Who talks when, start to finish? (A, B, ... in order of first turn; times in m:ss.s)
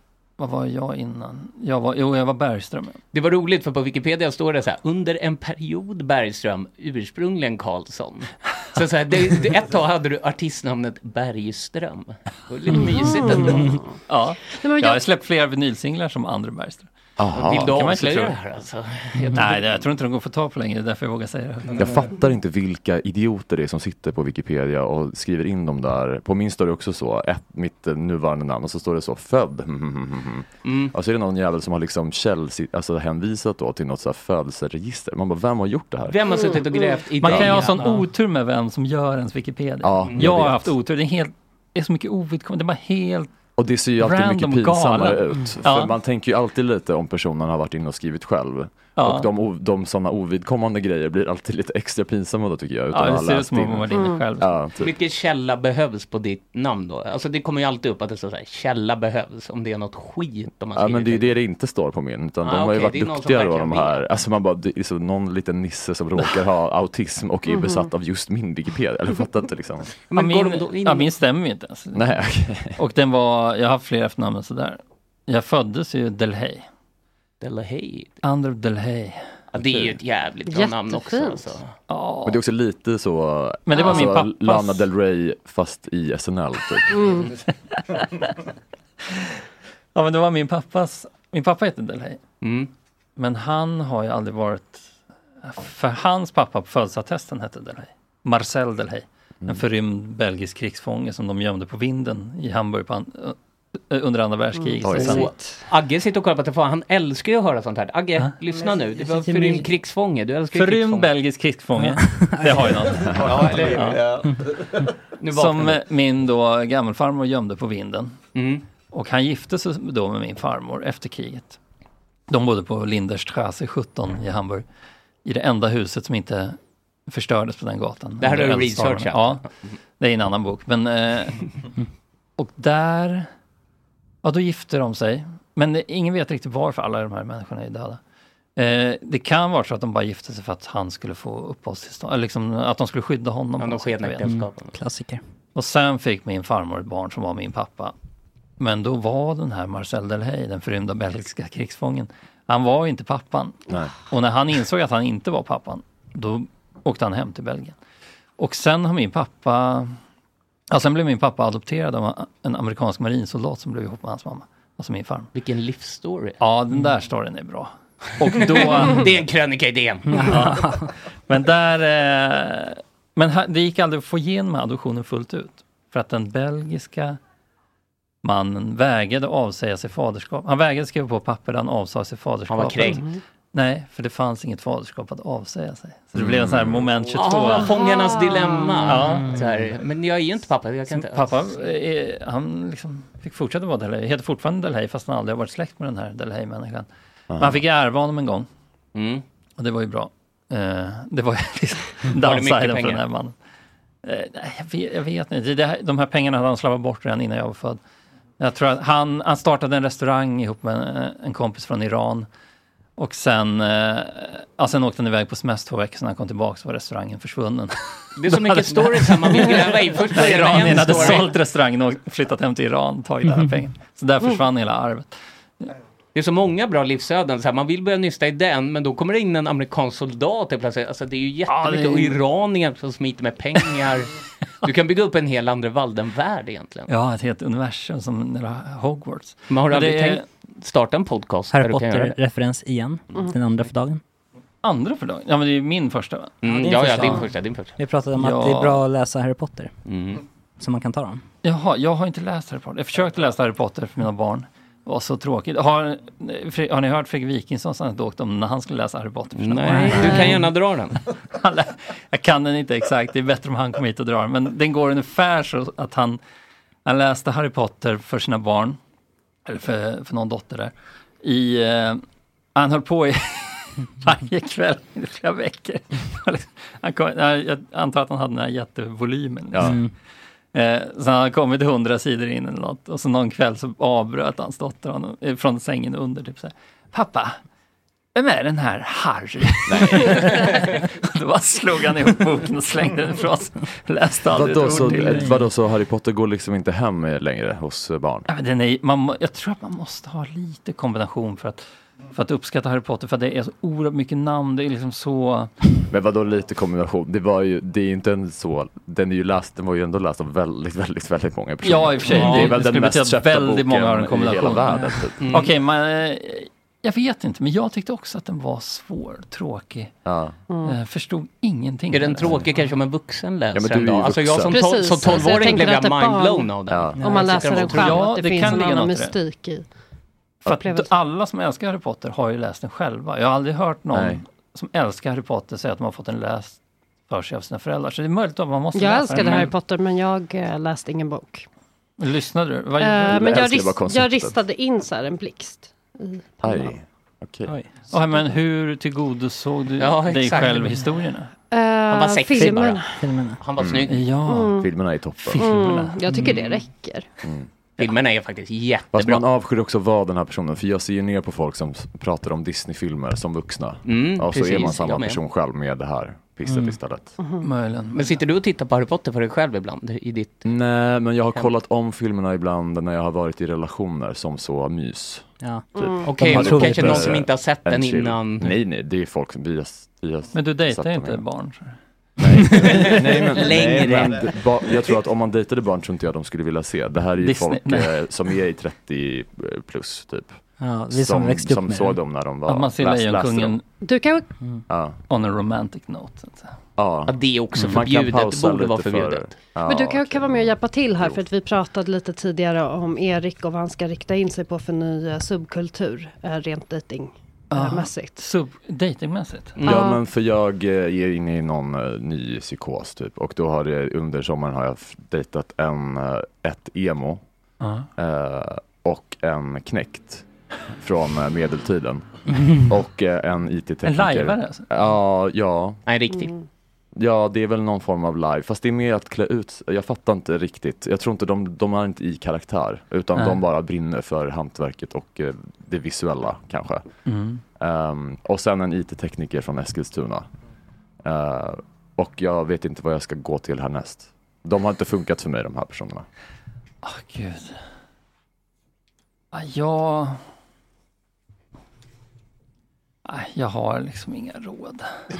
0:00.4-0:03.0 A
0:03.1-0:13.8 B
0:12.7-0:13.9 C
0:14.1-0:18.3 A
0:14.5-0:15.0 C
0:17.2-0:17.7 D
0:17.3-0:19.7 B
0:19.3-0:22.1 A
0:21.8-0:36.2 D
0:30.6-0:30.9 B
0:36.1-0:38.0 B
0:36.3-0:37.1 C
0:37.2-0:43.3 A
0:37.2-0:37.7 D
0:39.8-0:40.7 D
0:43.6-0:54.9 D
0:44.0-0:45.9 A
0:49.0-0:49.3 A
0:52.9-0:54.6 A
0:53.9-0:54.2 C
0:54.8-1:01.3 B
1:00.7-1:09.9 D
1:02.4-1:03.9 B
1:07.5-1:07.9 C
1:10.1-1:11.1 B
1:10.1-1:12.0 A
1:11.9-1:12.8 D
1:12.8-1:16.7 A
1:17.4-1:18.1 B
1:18.2-1:19.3 A
1:19.5-1:20.0 D
1:19.5-1:21.7 B
1:20.5-1:21.5 C
1:21.9-1:22.4 A
1:22.2-1:27.0 D
1:23.7-1:24.8 A
1:23.7-1:24.1 C
1:26.9-1:27.3 C
1:27.7-1:28.4 A
1:29.1-1:29.3 A
1:29.9-1:32.2 A
1:32.4-1:32.7 B
1:33.2-1:34.9 A
1:35.4-1:45.3 A
1:44.8-1:45.2 D
1:44.9-1:51.1 B
1:49.3-1:49.6 E
1:50.5-1:54.1 A
1:53.2-1:53.8 B
1:55.2-1:55.8 B
1:55.3-1:58.2 A
1:58.3-1:58.6 B
1:58.9-2:01.6 A
2:02.3-2:04.6 A
2:05.2-2:09.4 A
2:08.2-2:09.5 B
2:10.0-2:11.5 A
2:12.4-2:13.3 A
2:14.2-2:18.0 A
2:18.6-2:24.2 A
2:23.6-2:24.8 B
2:24.2-2:25.2 E
2:25.5-2:27.9 A
2:28.6-2:37.8 A
2:38.4-2:39.9 A
2:40.7-2:45.3 A
2:45.3-2:46.4 B
2:46.4-2:49.1 A
2:48.4-2:50.3 B
2:50.1-2:50.9 E
2:50.2-2:57.2 A
2:58.2-3:07.8 A
3:02.5-3:03.0 B
3:02.8-3:03.2 C
3:06.1-3:06.8 D
3:07.1-3:11.6 B
3:07.4-3:09.0 C
3:08.9-3:09.3 A
3:10.9-3:18.5 A
3:17.3-3:17.6 D
3:18.9-3:19.2 B
3:19.6-3:23.3 A
3:22.1-3:23.0 B
3:24.0-3:27.8 A
3:28.4-3:32.3 A
3:33.0-3:45.7 A
3:38.2-3:41.4 B
3:46.1-3:56.9 B
3:51.5-3:52.2 A
3:56.9-4:00.2 A
3:59.5-4:02.2 B
4:01.5-4:04.0 E
4:04.6-4:07.2 A
4:06.4-4:07.7 B
4:06.5-4:09.7 E
4:08.1-4:08.8 A
4:09.8-4:10.2 B
4:10.6-4:11.2 E
4:11.4-4:20.5 A
4:19.4-4:21.0 B
4:21.3-4:26.2 A
4:26.8-4:28.8 A
4:29.4-4:32.0 A
4:32.5-4:39.8 A
4:39.5-4:39.8 D
4:39.6-4:39.9 E
4:40.5-4:47.4 A
4:48.1-4:55.4 A
4:49.7-4:50.3 D
4:54.3-4:58.3 D
4:54.9-4:55.2 E
4:58.3-5:05.5 A
5:05.9-5:15.2 D
5:11.6-5:19.9 A
5:12.0-5:12.6 B
5:15.2-5:15.5 B
5:20.0-5:20.4 D
5:20.5-5:20.8 C
5:20.6-5:22.4 A
5:21.9-5:28.1 B
5:23.5-5:25.5 D
5:24.5-5:29.6 C
5:26.7-5:27.0 D
5:27.0-5:27.4 E
5:27.7-5:29.2 A
5:30.4-5:30.9 C
5:30.4-5:39.5 A
5:33.9-5:34.2 D
5:38.7-5:41.4 C
5:42.0-5:43.4 A
5:42.8-5:46.7 C
5:43.0-5:44.4 D
5:46.4-5:47.5 D
5:47.4-5:47.7 E
5:47.9-5:51.3 A
5:49.8-5:50.9 B
5:51.5-5:53.0 C
5:51.9-5:52.8 B
5:52.4-5:53.4 E
5:53.4-5:54.0 B
5:53.6-5:53.9 D
5:53.9-5:54.6 A
5:54.2-5:54.7 C
5:54.6-5:55.5 D
5:55.2-5:56.0 A
5:55.3-5:57.0 C
5:56.2-5:56.6 B
5:57.8-5:59.2 B
5:58.9-6:07.2 D
6:03.8-6:05.2 B
6:06.5-6:06.8 E
6:07.2-6:07.5 C
6:07.4-6:08.2 A
6:07.9-6:10.5 B
6:10.4-6:21.2 D
6:15.4-6:17.1 E
6:15.8-6:16.0 C
6:16.0-6:18.5 B
6:20.3-6:21.8 A
6:22.2-6:30.4 D
6:22.5-6:24.3 B
6:27.2-6:28.0 A
6:30.6-6:32.0 E
6:30.9-6:33.6 D
6:32.5-6:33.6 A
6:33.8-6:34.3 C
6:34.7-6:35.0 D
6:35.1-6:36.6 A
6:36.8-6:41.2 D
6:37.1-6:39.4 B
6:39.7-6:48.3 C
6:47.5-6:49.6 A
6:49.6-6:50.0 C
6:49.6-6:57.2 D
6:57.6-6:57.9 A
6:58.0-7:05.8 D
7:03.8-7:04.7 A
7:05.8-7:06.3 B
7:06.1-7:06.4 C
7:07.0-7:16.8 D
7:13.1-7:13.4 A
7:17.1-7:17.4 A
7:17.6-7:20.3 D
7:21.0-7:26.0 D
7:26.8-7:27.6 A
7:29.3-7:30.2 A
7:33.0-7:34.9 A